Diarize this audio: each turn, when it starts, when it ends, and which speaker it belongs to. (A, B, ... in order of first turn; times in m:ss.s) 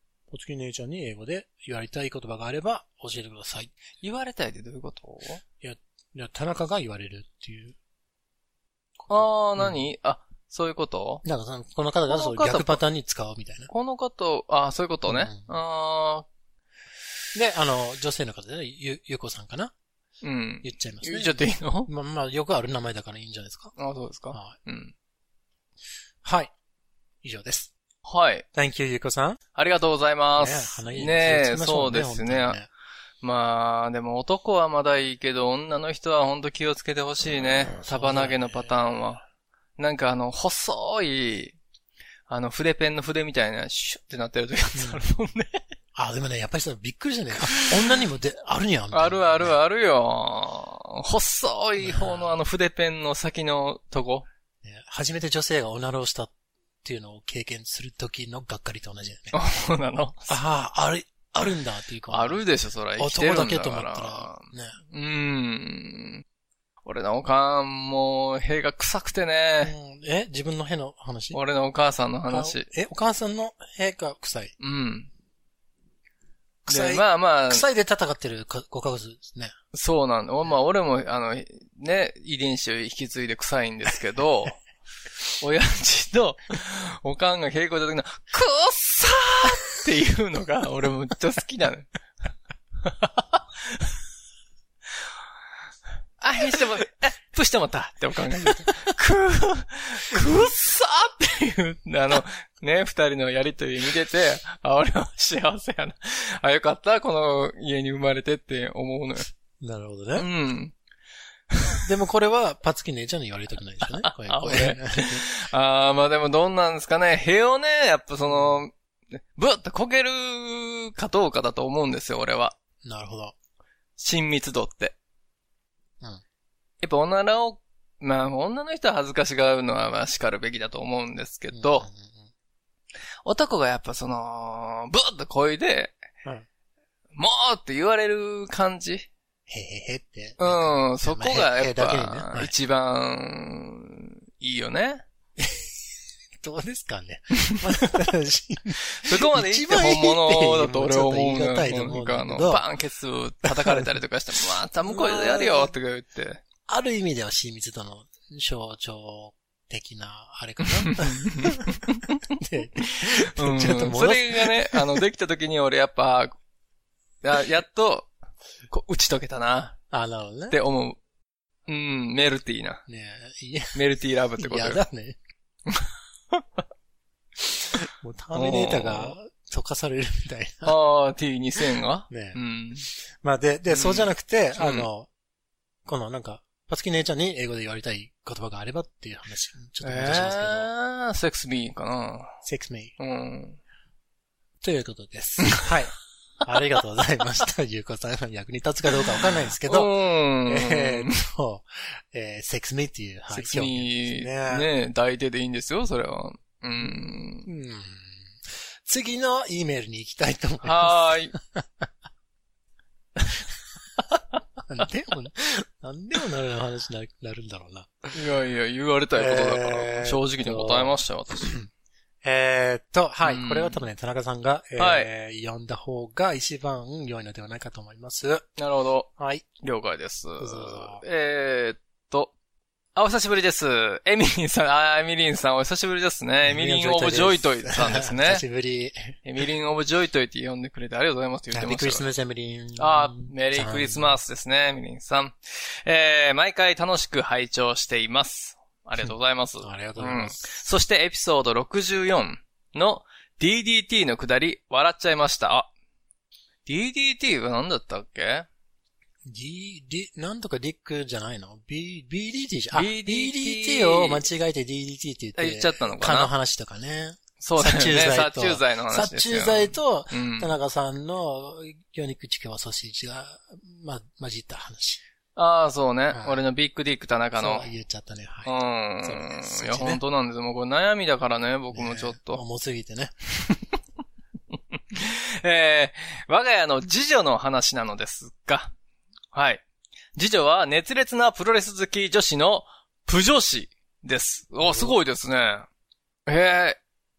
0:00.3-0:03.7 A
0:04.0-0:05.4 B
0:05.6-0:07.8 A
0:09.0-0:09.8 A
0:09.1-0:11.2 B
0:11.2-0:13.7 A
0:12.1-0:12.8 B
0:13.7-0:16.2 B
0:15.1-0:15.5 A
0:17.3-0:19.7 A
0:20.2-0:21.9 B
0:20.6-0:23.7 A
0:23.8-0:24.9 B
0:26.2-0:26.5 A
0:27.2-0:27.7 A
0:28.0-0:28.4 B
0:28.5-0:29.4 A
0:29.5-0:32.6 B
0:30.4-0:32.7 A
0:33.2-0:39.2 B
0:37.4-0:38.7 A
0:39.8-0:41.6 B
0:42.3-0:45.6 B
0:44.7-0:45.0 A
0:45.9-0:49.5 A
0:47.4-0:47.7 B
0:48.9-0:54.3 B
0:51.8-0:52.4 A
0:54.6-0:59.3 A
0:59.3-1:00.3 B
1:00.3-1:02.4 A
1:02.1-1:06.2 B
1:03.0-1:04.8 A
1:06.8-1:09.7 B
1:09.6-1:11.4 A
1:11.3-1:12.7 B
1:12.3-1:14.5 A
1:14.6-1:15.1 B
1:16.6-1:19.5 A
1:16.7-1:17.6 B
1:19.7-1:24.6 B
1:25.4-1:31.9 B
1:32.8-1:33.9 B
1:36.2-1:49.3 B
1:38.4-1:38.7 A
1:49.6-1:50.3 A
1:50.2-1:50.7 B
1:51.5-1:51.8 B
1:51.8-1:55.3 A
1:53.8-2:02.6 B
1:58.2-1:58.6 A
2:02.8-2:03.3 A
2:04.0-2:04.9 B
2:06.8-2:11.9 B
2:11.5-2:12.3 A
2:13.2-2:16.0 B
2:17.1-2:19.1 B
2:19.5-2:22.5 A
2:20.4-2:25.0 B
2:25.4-2:25.7 A
2:26.4-2:32.6 A
2:29.0-2:36.4 B
2:33.4-2:33.9 A
2:34.8-2:35.7 A
2:36.6-2:45.0 A
2:40.8-2:42.1 B
2:42.8-2:46.3 B
2:47.2-2:48.1 B
2:48.7-2:49.8 B
2:49.9-2:50.6 A
2:50.5-2:51.0 B
2:51.7-2:52.8 B
2:52.9-2:53.8 A
2:53.7-2:54.8 B
2:54.4-2:55.2 A
2:55.7-2:56.4 B
2:57.7-3:00.7 A
2:58.3-2:59.2 B
3:00.6-3:02.9 B
3:02.1-3:05.1 A
3:03.7-3:04.9 B
3:05.8-3:10.7 A
3:09.8-3:12.4 B
3:12.4-3:12.9 A
3:13.0-3:13.6 B
3:14.6-3:19.9 A
3:15.4-3:15.7 B
3:19.6-3:21.1 B
3:20.4-3:24.7 A
3:23.3-3:27.5 B
3:26.8-3:28.3 A
3:28.8-3:31.8 A
3:30.6-3:31.3 B
3:34.7-3:38.2 A
3:38.1-3:41.5 B
3:39.2-3:41.7 A
3:42.2-3:48.5 A
3:43.2-3:43.8 B
3:44.8-3:45.1 B
3:48.6-3:49.1 B
3:49.2-3:49.4 A
3:49.6-3:52.3 B
3:50.4-3:51.0 A
3:52.9-3:58.4 B
3:56.4-3:59.2 A
3:59.2-4:02.0 B
4:01.5-4:04.2 A
4:02.8-4:15.7 B
4:09.6-4:10.5 A
4:16.6-4:18.5 B
4:19.2-4:35.0 A
4:22.7-4:24.2 B
4:25.4-4:26.3 B
4:27.4-4:30.6 B
4:35.4-4:37.7 B
4:36.1-4:36.4 A
4:37.4-4:40.0 A
4:38.4-4:42.4 B
4:41.7-4:43.1 A
4:44.9-4:48.7 B
4:49.3-4:49.6 B
4:50.2-4:55.6 B
4:54.6-4:55.0 A
4:56.3-4:56.8 B